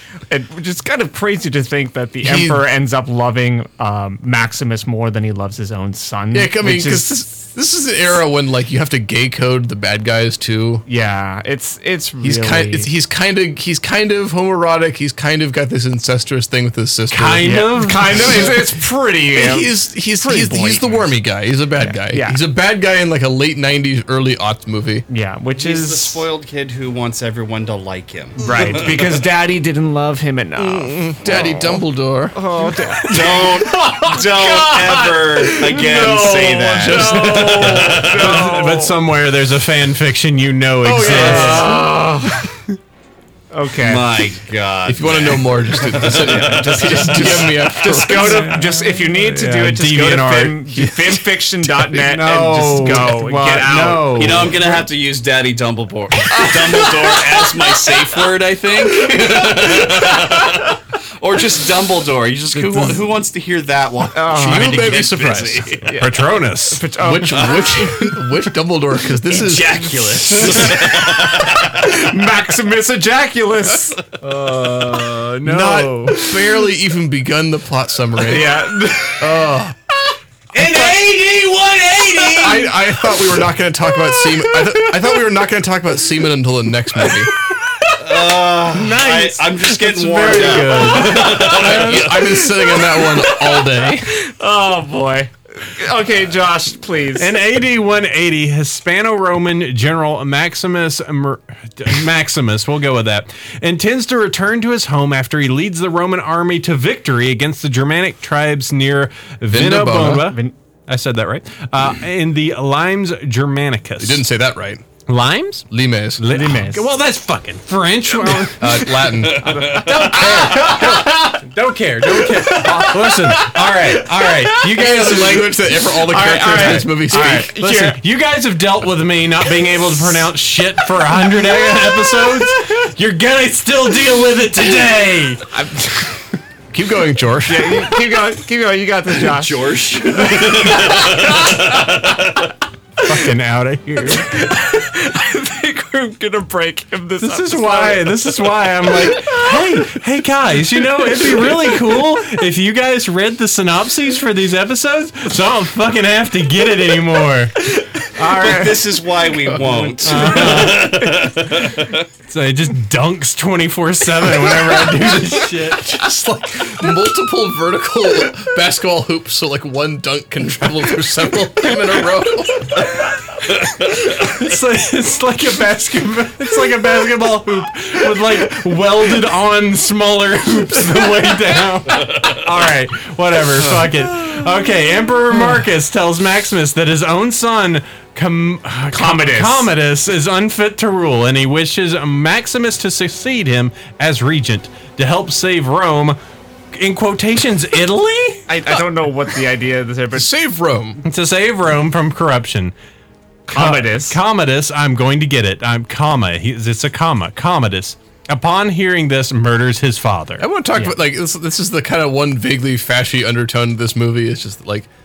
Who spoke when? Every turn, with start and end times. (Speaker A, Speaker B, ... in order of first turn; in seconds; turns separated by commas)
Speaker A: 0.3-7.3, Speaker B: 2.2-2.6, Speaker B: 6.3-10.8, Speaker A: 10.9-12.9, Speaker B: 12.2-17.5, Speaker C: 17.1-18.5, Speaker A: 17.4-21.1, Speaker B: 18.0-18.6, Speaker B: 19.3-25.0, Speaker A: 21.8-22.4, Speaker A: 25.1-26.2, Speaker D: 25.6-29.2, Speaker B: 28.4-28.9, Speaker A: 28.4-31.8, Speaker B: 30.6-32.4, Speaker A: 32.3-33.5, Speaker C: 33.0-34.7, Speaker D: 33.0-38.4, Speaker A: 34.3-36.0, Speaker B: 35.8-38.1, Speaker A: 36.8-39.0, Speaker C: 37.4-41.7, Speaker B: 40.8-41.9, Speaker A: 41.0-42.5, Speaker A: 43.5-44.1, Speaker D: 43.8-48.1, Speaker B: 44.8-48.5, Speaker A: 46.2-54.4, Speaker C: 48.1-54.6, Speaker D: 54.1-66.0, Speaker A: 56.3-57.6, Speaker A: 59.0-59.5, Speaker A: 64.1-65.0, Speaker B: 64.3-65.7, Speaker A: 65.8-68.1, Speaker C: 66.0-66.8, Speaker B: 67.0-70.9, Speaker D: 69.2-71.9, Speaker A: 70.3-76.5, Speaker C: 74.4-76.1, Speaker B: 74.5-78.6, Speaker A: 78.2-79.5, Speaker B: 79.2-79.8, Speaker C: 80.5-82.7, Speaker A: 80.5-81.0, Speaker B: 82.3-87.3, Speaker D: 88.0-92.3, Speaker C: 88.7-92.0, Speaker A: 88.7-89.5, Speaker A: 90.2-97.3, Speaker B: 91.1-94.1, Speaker C: 97.1-114.2, Speaker B: 109.5-110.3, Speaker A: 110.3-110.5, Speaker B: 114.0-114.8, Speaker C: 115.1-115.7, Speaker B: 115.7-116.2, Speaker C: 116.2-135.5, Speaker A: 116.2-116.8, Speaker A: 118.3-121.2, Speaker B: 118.5-121.0, Speaker D: 119.3-119.9, Speaker A: 122.2-124.8, Speaker B: 124.6-127.5, Speaker A: 126.1-128.0, Speaker A: 135.5-136.1, Speaker B: 136.7-137.9, Speaker A: 137.4-141.9, Speaker D: 139.2-142.5, Speaker C: 143.0-144.4, Speaker A: 143.9-149.6, Speaker C: 147.2-158.8, Speaker A: 151.0-151.9, Speaker A: 157.7-158.6, Speaker D: 158.2-162.0, Speaker C: 159.6-161.7, Speaker A: 160.1-161.2, Speaker C: 162.3-166.2, Speaker B: 165.9-172.8, Speaker C: 173.5-196.2, Speaker A: 188.9-189.7, Speaker C: 196.7-198.5, Speaker A: 198.5-200.3, Speaker B: 200.1-201.0, Speaker C: 201.0-202.7, Speaker A: 203.5-204.2, Speaker C: 203.5-210.4, Speaker B: 210.4-214.9